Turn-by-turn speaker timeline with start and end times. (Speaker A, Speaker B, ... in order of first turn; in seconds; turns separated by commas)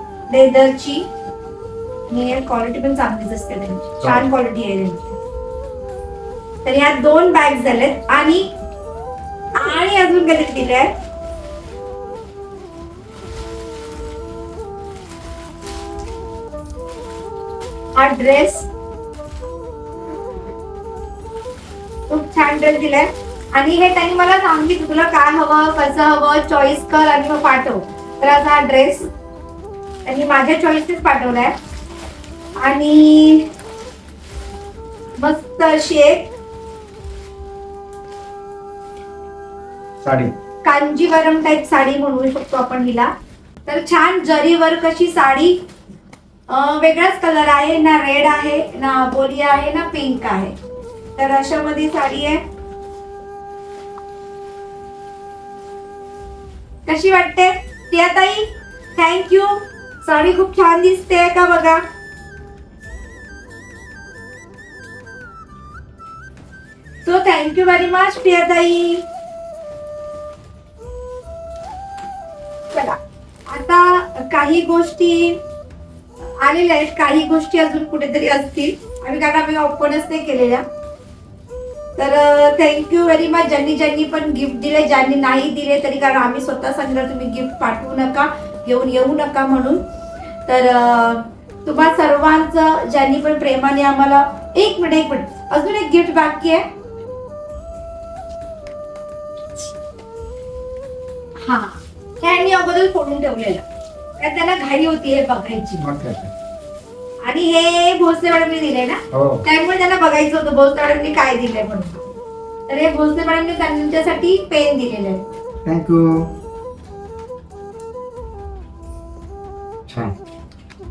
Speaker A: 0.3-1.1, Speaker A: 2.1-5.2, Speaker B: 4.0-4.3, Speaker A: 6.6-8.5, Speaker A: 9.6-10.9, Speaker A: 18.0-18.7, Speaker A: 22.1-29.1, Speaker A: 30.1-31.5, Speaker A: 32.6-33.5, Speaker A: 35.2-36.3, Speaker B: 40.0-40.3, Speaker A: 40.6-43.1, Speaker A: 43.6-45.6, Speaker A: 46.5-50.5, Speaker A: 51.1-52.4, Speaker A: 56.9-61.8, Speaker A: 67.0-69.0, Speaker A: 72.7-73.0, Speaker A: 73.5-75.4, Speaker A: 76.4-80.6, Speaker A: 82.0-89.8, Speaker A: 90.5-96.6, Speaker A: 101.4-103.6, Speaker A: 104.2-105.8, Speaker B: 105.8-106.3, Speaker A: 107.2-112.0, Speaker B: 109.1-109.4, Speaker A: 112.7-115.2, Speaker B: 115.6-116.3, Speaker B: 119.9-120.1